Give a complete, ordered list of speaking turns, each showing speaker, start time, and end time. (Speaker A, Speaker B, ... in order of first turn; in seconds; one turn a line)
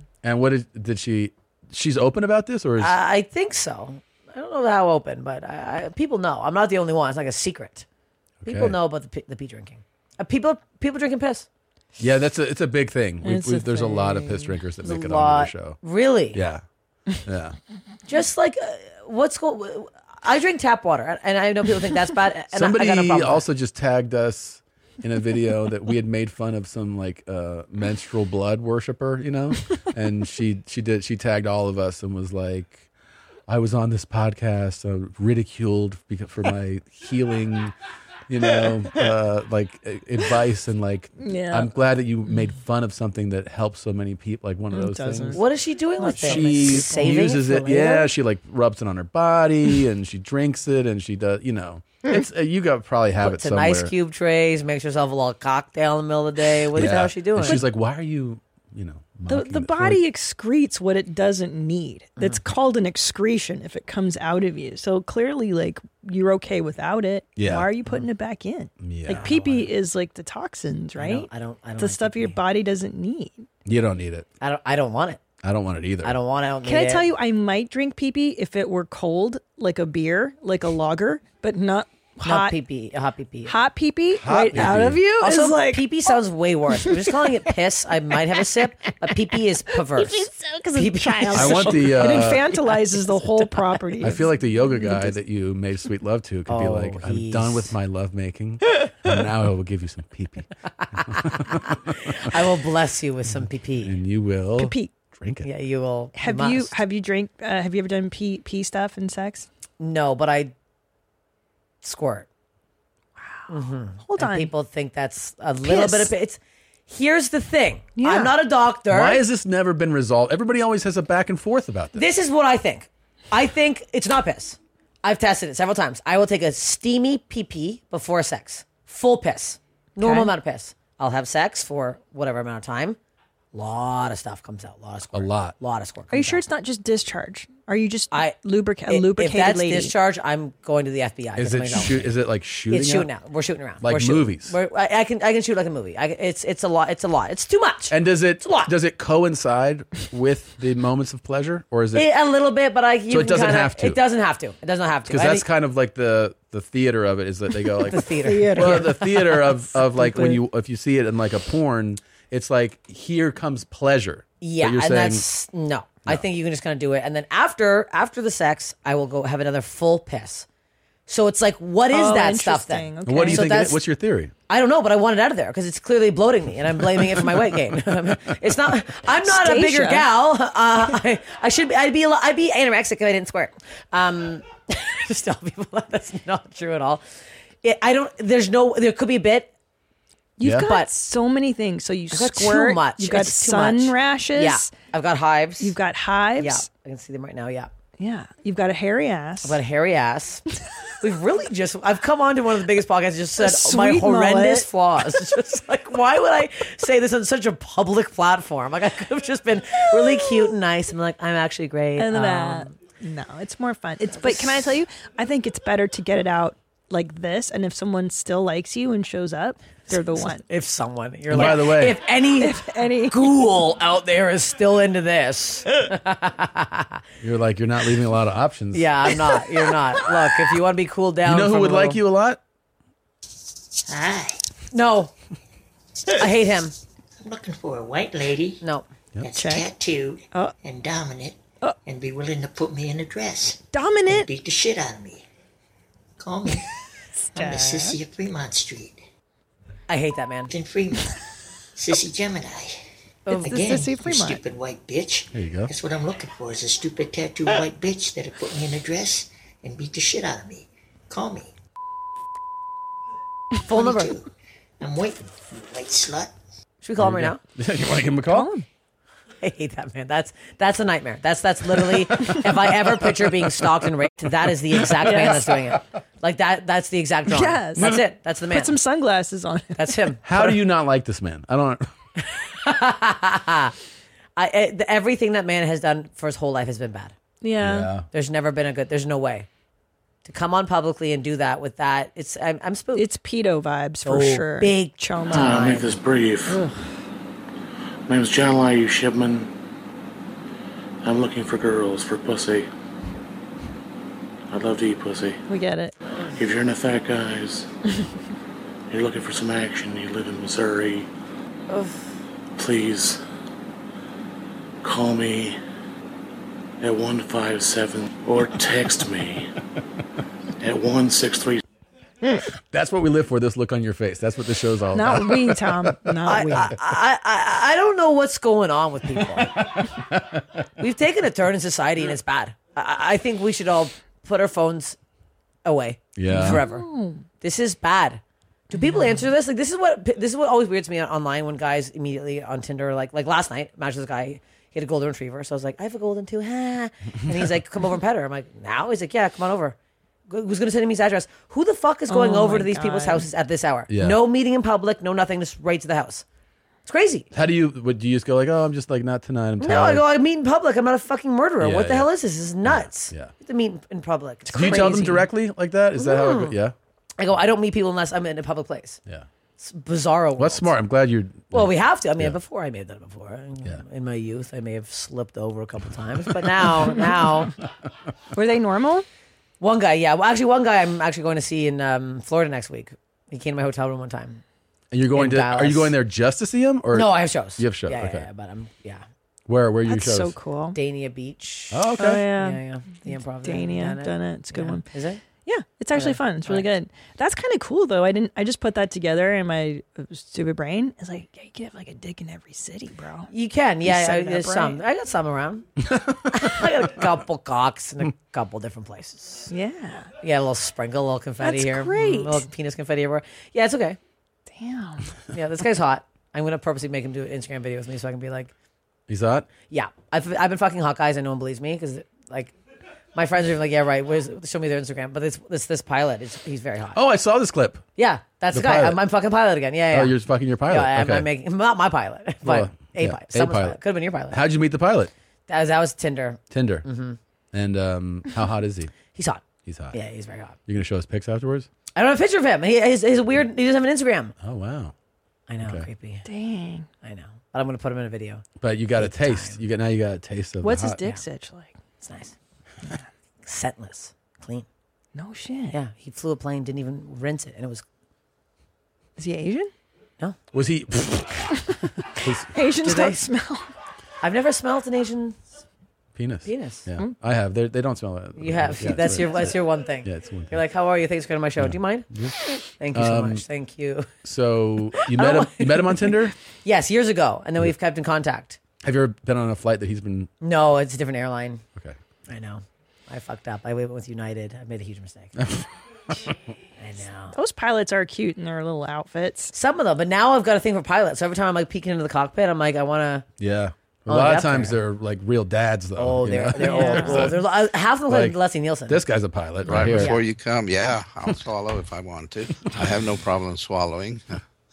Speaker A: 0.2-3.0
Speaker B: 2.8-7.9
Speaker A: 8.4-8.8
Speaker B: 8.4-11.5
Speaker A: 12.0-15.8
Speaker C: 13.2-14.6
Speaker B: 14.8-16.4
Speaker A: 16.3-16.6
Speaker A: 17.2-17.6
Speaker B: 18.1-23.4
Speaker A: 22.5-32.9
Speaker A: 33.5-37.8
Speaker A: 38.3-45.4
Speaker C: 41.2-41.7
Speaker C: 44.7-45.5
Speaker B: 45.3-47.9
Speaker C: 46.0-48.1
Speaker A: 46.1-53.9
Speaker B: 53.2-57.6
Speaker A: 56.7-60.0
Speaker C: 59.3-73.5
Speaker A: 67.4-67.7
Speaker A: 68.8-69.7
Speaker B: 69.1-69.4
Speaker B: 71.0-72.4
Speaker A: 73.7-74.3
Speaker B: 74.4-75.2
Speaker A: 75.4-76.2
Speaker B: 76.0-77.1
Speaker C: 76.6-82.6
Speaker B: 82.2-83.6
Speaker C: 83.5-86.1
Speaker A: 84.1-85.0
Speaker B: 84.5-92.4
Speaker C: 90.0-94.3
Speaker A: 91.3-92.5
Speaker A: 94.0-100.5
Speaker C: 94.8-95.1
Speaker B: 96.5-97.7
Speaker A: 101.1-101.8
Speaker B: 101.1-104.0
Speaker A: 103.8-105.5
Speaker C: 104.6-104.9
Speaker B: 105.4-106.8
Speaker C: 106.2-109.5
Speaker B: 109.8-110.5
Speaker B: 111.8-112.3
Speaker C: 113.2-114.5
Speaker B: 113.5-119.2
Speaker C: 115.6-116.1
Speaker C: 118.0-118.3
Speaker A: 118.9-122.1
Speaker B: 122.0-133.0
Speaker C: 130.0-130.3
Speaker B: 133.5-136.4
Speaker A: 135.1-135.6
Speaker C: 136.1-139.9
Speaker B: 138.9-142.1
Speaker A: 141.3-143.1
Speaker B: 142.7-148.7
Speaker A: 143.8-144.5
Speaker A: 147.9-152.1
Speaker B: 151.9-155.5
Speaker A: 153.1-154.0
Speaker A: 155.1-165.2
Speaker B: 157.9-159.1
Speaker C: 158.2-160.4
Speaker B: 164.4-170.5
Speaker B: 171.1-173.8
Speaker C: 171.9-173.6
Speaker A: 173.1-174.3
Speaker B: 174.5-187.0
Speaker C: 179.2-180.1
Speaker B: 187.6-189.5
Speaker C: 190.4-194.7
Speaker A: 190.4-190.7
Speaker B: 190.6-190.9
Speaker B: 192.1-195.8
Speaker C: 195.6-196.7
Speaker B: 196.4-197.7
Speaker C: 198.0-199.6
Speaker B: 199.4-200.4
Speaker B: 201.0-212.8
Speaker C: 203.4-204.7
Speaker C: 212.0-220.4
Speaker B: 214.1-214.6
Speaker B: 219.9-227.0
Speaker A: 221.3-222.0
Speaker C: 221.3-221.6
Speaker C: 222.4-223.2
Speaker A: 227.2-228.9
Speaker B: 228.7-232.0
Speaker A: 231.2-232.4
Speaker D: 233.9-234.4
Speaker B: 234.7-235.1
Speaker B: 236.2-236.7
Speaker D: 237.2-238.6
Speaker B: 238.6-238.9
Speaker D: 239.2-245.2
Speaker C: 239.3-239.7
Speaker C: 243.7-244.3
Speaker D: 246.2-246.7
Speaker C: 247.2-248.0
Speaker D: 247.3-249.0
Speaker B: 249.9-250.5
Speaker D: 250.5-251.2
Speaker D: 251.8-252.8
Speaker B: 253.3-253.6
Speaker C: 253.3-254.4
Speaker D: 253.4-261.5
Speaker A: 255.3-255.7
Speaker B: 263.7-264.1
Speaker D: 263.7-264.3
Speaker D: 264.8-266.3
Speaker B: 266.8-267.4
Speaker A: 267.0-268.5
Speaker C: 268.3-268.7
Speaker B: 269.4-278.8
Speaker C: 275.0-275.5
Speaker C: 277.3-278.0
Speaker C: 278.5-280.0
Speaker B: 279.8-280.2
Speaker A: 280.2-281.9
Speaker B: 282.2-283.8
Speaker B: 284.4-287.1
Speaker C: 287.4-287.9
Speaker A: 287.6-288.1
Speaker B: 288.1-289.5
Speaker B: 290.2-293.1
Speaker C: 292.9-295.7
Speaker B: 294.1-296.0
Speaker E: 295.3-296.6
Speaker E: 298.1-299.5
Speaker E: 301.0-302.7
Speaker E: 304.5-305.4
Speaker C: 305.5-305.9
Speaker E: 306.3-307.7
Speaker E: 308.9-311.1
Speaker B: 311.7-312.1
Speaker E: 312.6-313.2
Speaker E: 314.8-315.6
Speaker E: 316.8-319.5
Speaker E: 320.6-321.6
Speaker A: 322.5-326.0
Speaker C: 324.9-326.7
Speaker B: 326.2-329.6
Speaker B: 330.8-335.0
Speaker B: 335.6-336.9
Speaker A: 336.2-336.6
Speaker C: 336.3-337.3
Speaker B: 337.4-338.2
Speaker B: 338.7-349.8
Speaker C: 338.7-339.1
Speaker B: 350.3-356.2
Speaker C: 352.1-353.3
Speaker A: 353.9-354.2
Speaker B: 356.9-357.3
Speaker A: 357.3-360.1
Speaker B: 359.6-365.3
Speaker A: 361.6-362.1
Speaker A: 362.6-363.3
Speaker A: 364.5-366.8
Speaker B: 366.0-366.6
Speaker B: 367.2-369.0
Speaker B: 369.6-370.7
Speaker A: 370.4-372.4
Speaker B: 371.5-377.5
Speaker C: 378.3-379.1
Speaker B: 379.6-384.4
Speaker A: 384.9-388.3
Speaker B: 385.1-385.9
Speaker B: 386.9-389.1
Speaker A: 389.5-390.4
Speaker C: 389.9-390.8
Speaker B: 390.7-395.2
Speaker A: 391.7-392.3
Speaker C: 392.0-394.9
Speaker C: 395.4-403.3
Speaker B: 395.9-396.7
Speaker B: 403.3-405.7
Speaker C: 403.8-404.8
Speaker A: 405.9-406.5
Speaker B: 406.3-409.5
Speaker C: 409.5-410.1
Speaker B: 410.2-414.0
Speaker C: 411.4-412.4
Speaker C: 414.5-415.1
Speaker B: 415.3-418.5
Speaker A: 419.1-419.5
Speaker B: 419.7-422.5
Speaker B: 423.1-427.0
Speaker A: 426.9-427.9
Speaker B: 428.0-434.4
Speaker A: 428.5-429.0
Speaker A: 429.9-431.3
Speaker A: 432.4-433.8
Speaker A: 434.3-435.1
Speaker B: 435.5-437.2
Speaker A: 436.5-436.9
Speaker A: 437.5-438.9
Speaker B: 439.1-440.6
Speaker A: 439.6-440.0
Speaker A: 440.7-441.7
Speaker B: 441.9-444.4
Speaker A: 444.4-444.9
Speaker B: 445.5-446.2
Speaker A: 445.6-445.9
Speaker C: 446.2-446.9
Speaker B: 447.0-449.6
Speaker A: 448.6-451.0
Speaker C: 450.6-451.7
Speaker B: 452.0-452.3
Speaker B: 453.4-454.7
Speaker C: 455.1-455.8
Speaker B: 455.7-457.8
Speaker C: 459.2-459.7
Speaker A: 460.5-461.6
Speaker A: 462.2-462.5
Speaker C: 462.5-463.7
Speaker B: 462.8-463.2
Speaker B: 464.2-465.4
Speaker A: 466.1-470.6
Speaker B: 466.4-466.9
Speaker B: 468.4-472.2
Speaker A: 471.6-472.4
Speaker B: 472.8-474.1
Speaker A: 472.9-473.4
Speaker A: 474.2-476.4
Speaker B: 475.0-478.6
Speaker A: 478.8-480.3
Speaker B: 480.4-481.6
Speaker B: 482.3-485.3
Speaker A: 485.4-485.7
Speaker B: 486.8-487.3
Speaker C: 487.3-489.5
Speaker B: 489.5-493.3
Speaker A: 493.4-497.5
Speaker B: 494.1-494.8
Speaker B: 496.0-499.0
Speaker C: 496.6-497.3
Speaker A: 498.1-500.2
Speaker F: 499.7-504.4
Speaker B: 499.9-500.3
Speaker A: 502.8-503.1